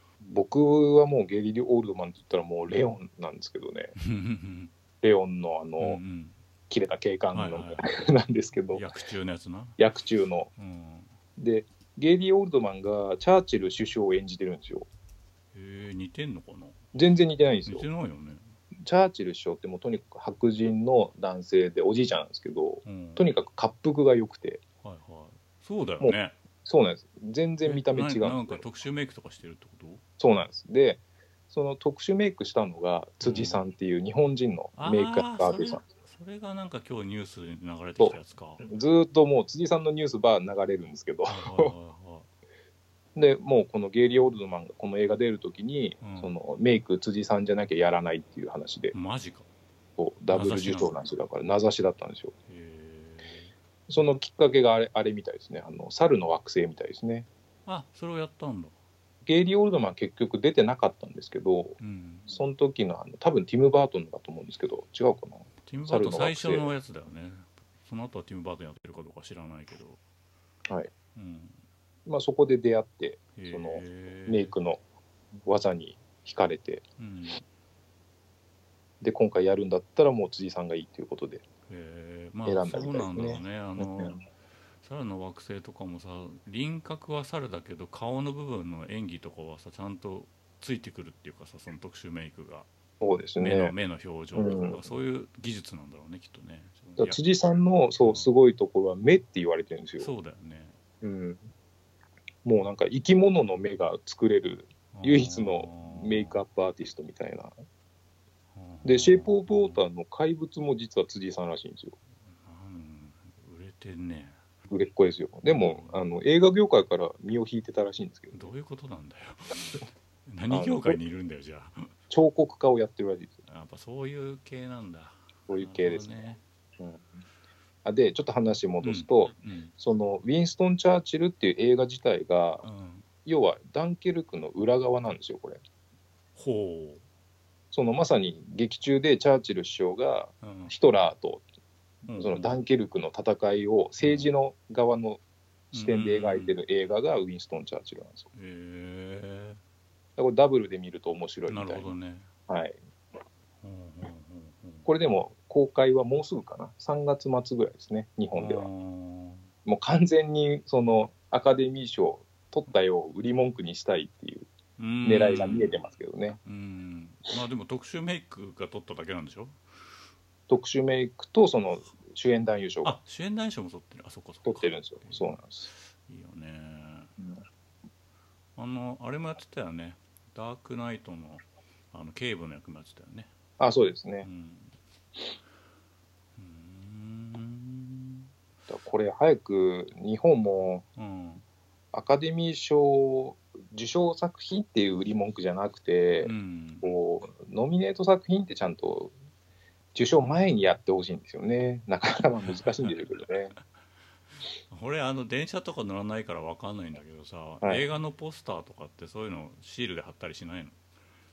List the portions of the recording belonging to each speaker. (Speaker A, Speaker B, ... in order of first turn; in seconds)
Speaker A: 0.2-3.9, 5.0-6.0, 6.7-8.9, 9.8-10.5, 11.4-14.9, 16.9-17.9, 18.8-24.6, 26.0-28.6, 30.2-35.8, 38.0-41.7, 43.1-48.9, 50.0-52.3, 53.9-57.3, 59.2-66.7, 72.0-74.8, 75.4-76.8, 79.0-81.4, 82.5-84.2, 93.0-93.7, 94.3-94.8, 97.0-100.1, 101.0-101.4, 102.4-107.5, 108.8-112.0, 114.7-118.5, 120.5-121.0, 122.1-123.3, 125.5-126.3, 126.8-127.1, 127.8-132.7, 133.2-135.6, 137.7-141.4, 142.2-145.2, 145.7-148.3, 150.2-151.9, 152.5-152.8, 154.8-158.7, 159.6-164.5, 165.0-166.4, 170.5-173.0, 174.4-175.7, 183.6-184.3, 188.7-190.8, 191.9-199.1, 199.9-203.5
Speaker B: 4.0-4.7, 5.8-6.4, 7.3-7.9, 8.7-9.8, 10.6-11.1, 15.5-16.8, 17.6-18.5, 22.8-23.2, 24.8-26.4, 27.6-30.0, 33.2-33.6, 34.8-38.6, 41.3-42.3, 46.0-46.3, 48.9-49.5, 50.3-50.9, 52.5-53.5, 57.6-58.7, 61.8-62.3, 65.7-70.0, 71.1-71.6, 73.3-74.5, 77.0-77.4, 81.7-84.2, 84.8-92.7, 93.4-97.2, 98.0-98.3, 100.0-100.8, 104.9-106.4, 108.5-109.8, 112.2-114.4, 115.5-116.0, 118.3-119.6, 120.2-121.9, 123.5-126.4, 128.8-129.7, 132.6-133.1, 136.3-137.0, 140.4-140.7, 142.1-142.6, 144.0-144.3, 145.7-146.6, 148.3-149.6, 151.5-152.3, 153.6-154.9, 158.3-159.5, 164.8-165.8, 166.4-169.6, 172.8-177.1, 178.6-183.3, 184.2-184.7, 186.3-188.3, 191.0-191.4, 196.2-196.9, 202.4-203.0, 204.7-210.8